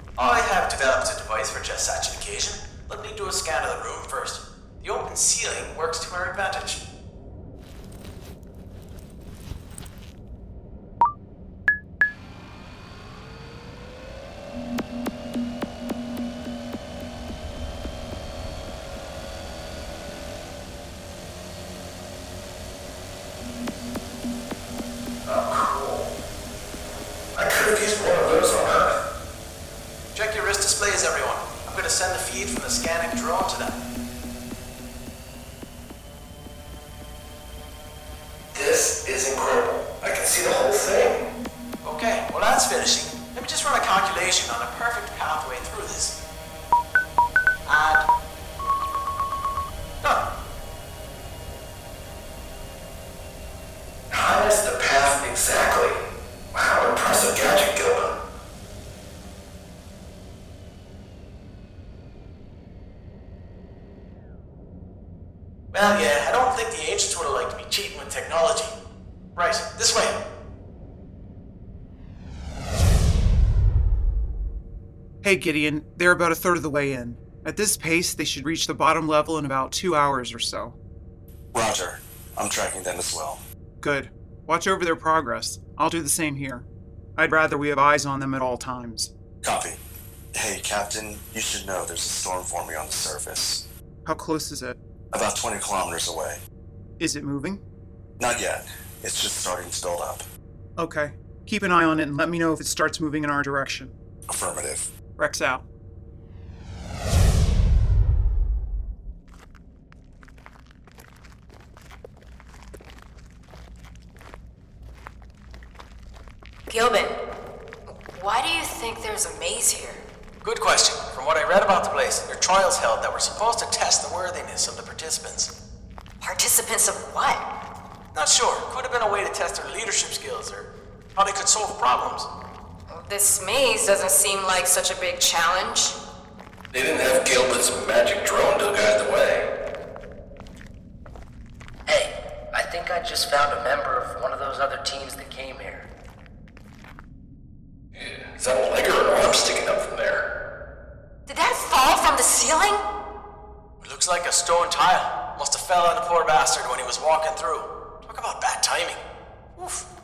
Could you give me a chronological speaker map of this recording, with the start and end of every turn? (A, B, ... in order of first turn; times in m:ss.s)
0:00.2-0:06.8 A
0:25.2-0:26.1 B
0:27.3-0:29.0 B
0:30.1-0:33.8 A
0:38.5-0:41.3 B
0:41.8-0:46.2 A
0:47.6-0:48.0 A
0:54.1-0:58.2 B
1:05.7-1:08.7 A
1:09.4-1:10.2 A
1:15.2-1:20.8 C
1:21.5-1:23.4 D
1:23.8-1:29.1 C
1:29.4-1:29.8 D
1:30.3-1:33.7 D
1:34.0-1:34.8 C
1:35.1-1:36.4 D
1:37.0-1:37.6 C
1:38.2-1:40.2 D
1:40.8-1:43.9 C
1:44.3-1:44.9 D
1:45.2-1:45.6 C
1:56.7-1:57.2 E
1:58.1-2:00.0 E
2:00.4-2:05.5 A
2:06.2-2:07.4 E
2:08.1-2:12.3 A
2:12.9-2:16.0 E
2:16.7-2:19.5 B
2:21.8-2:25.9 F
2:27.9-2:30.3 B
2:31.3-2:32.8 E
2:33.8-2:39.0 A
2:39.6-2:39.8 A